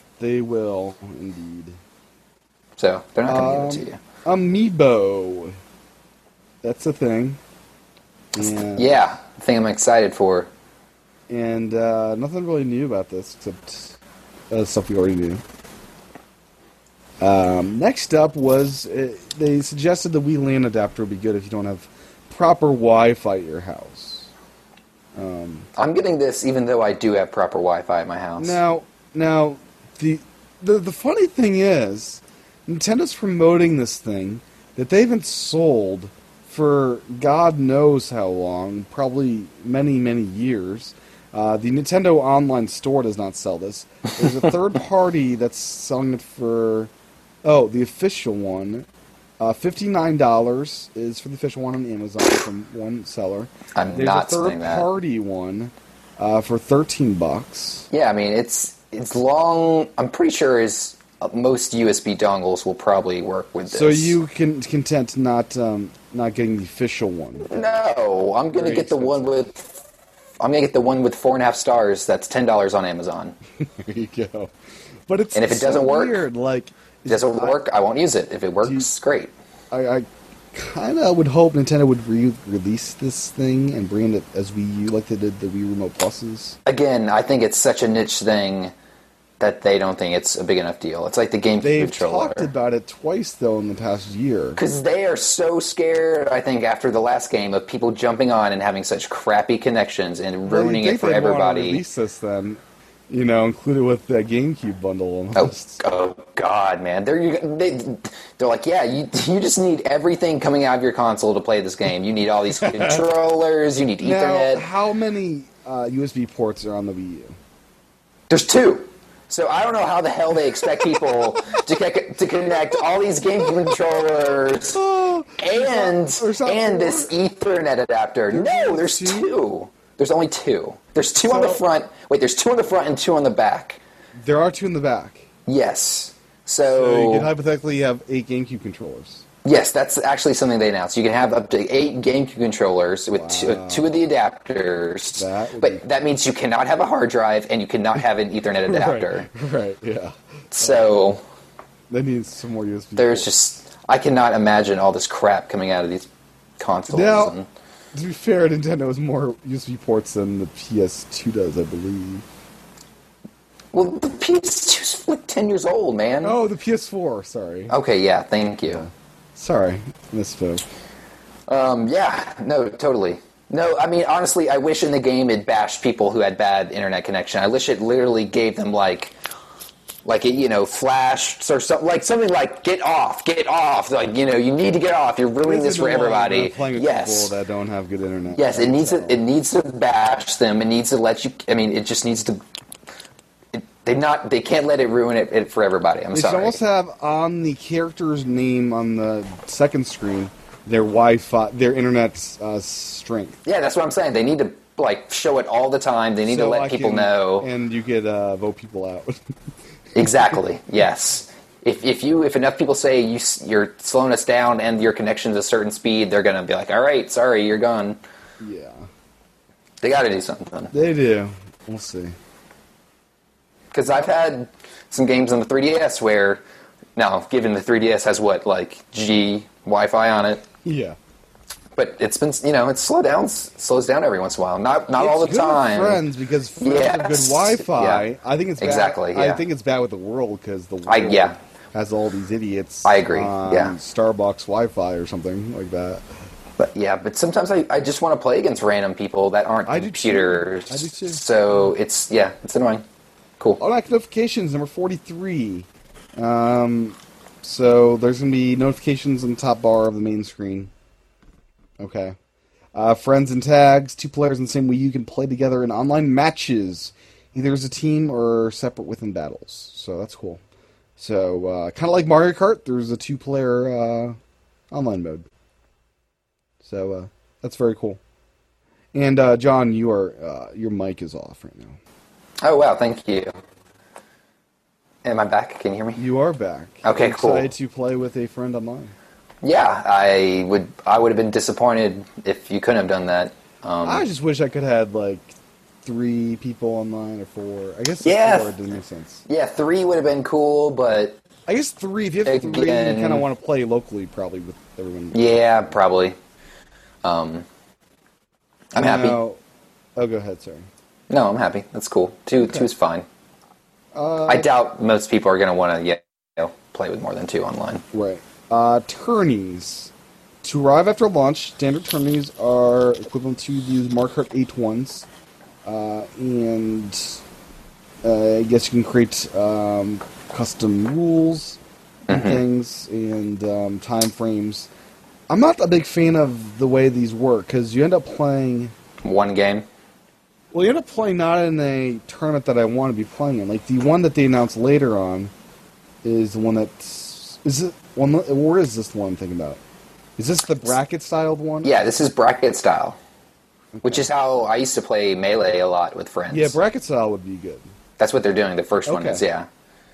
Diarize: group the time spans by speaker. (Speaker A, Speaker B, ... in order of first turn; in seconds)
Speaker A: 0.2-1.8, 3.2-5.6, 6.6-7.4, 8.3-8.9, 11.3-14.0, 14.5-15.4, 17.2-24.3, 25.1-25.7, 28.4-46.9, 47.4-48.9, 49.4-57.9, 63.7-67.7, 68.5-69.3, 73.6-74.5, 75.1-77.6, 78.6-78.9, 79.7-86.6, 91.6-94.6, 100.5-105.8, 112.6-113.0, 114.0-117.3, 124.7-127.1, 128.3-129.3, 131.2-131.6, 134.2-135.3, 136.7-139.2, 143.1-143.9, 145.2-145.8, 148.7-150.9, 151.9-153.3, 156.9-157.3, 157.9-162.2, 166.2-167.8, 168.7-170.6, 185.4-189.2, 196.1-203.4, 206.2-209.2, 218.4-218.8, 220.7-222.1, 230.6-231.0, 234.9-246.0, 249.7-251.2, 253.6-260.7, 261.8-262.1, 262.7-270.4, 271.0-274.2, 274.7-275.2, 276.6-278.0, 278.9-281.8, 286.0-288.9, 293.8-295.3, 295.8-299.2, 301.5-305.8, 308.8-309.4, 309.9-310.7, 312.4-312.7, 313.9-314.5, 317.9-319.9, 320.4-325.1, 325.6-327.2, 328.0-334.7, 335.3-338.7, 340.5-345.3, 346.0-349.6, 350.2-351.8, 353.7-354.1, 356.3-357.7, 358.9-359.2
Speaker B: 2.8-4.0, 8.4-10.5, 25.8-28.6, 53.7-54.9, 57.9-64.2, 67.5-69.8, 70.4-73.3, 75.3-76.2, 77.1-79.3, 86.7-88.7, 89.4-92.5, 94.6-101.8, 105.3-114.7, 118.3-124.8, 125.4-133.8, 135.4-137.3, 139.4-149.3, 150.6-151.2, 153.0-156.1, 156.6-157.5, 163.7-166.3, 167.7-168.8, 171.5-179.2, 180.0-187.3, 188.3-192.4, 193.5-196.6, 203.4-207.5, 209.9-218.0, 219.8-220.7, 223.7-226.4, 226.9-230.4, 231.8-236.0, 236.6-238.0, 238.6-239.4, 240.8-241.3, 242.8-243.8, 246.6-252.8, 282.4-283.3, 285.0-286.0, 286.8-287.5, 289.4-294.0, 298.0-298.5, 299.3-301.2, 302.2-303.2, 305.1-306.2, 307.0-307.4, 308.7-309.2, 311.1-313.0, 314.3-317.8, 332.1-332.4, 339.0-339.6, 351.6-353.0, 353.8-356.6, 358.0-359.5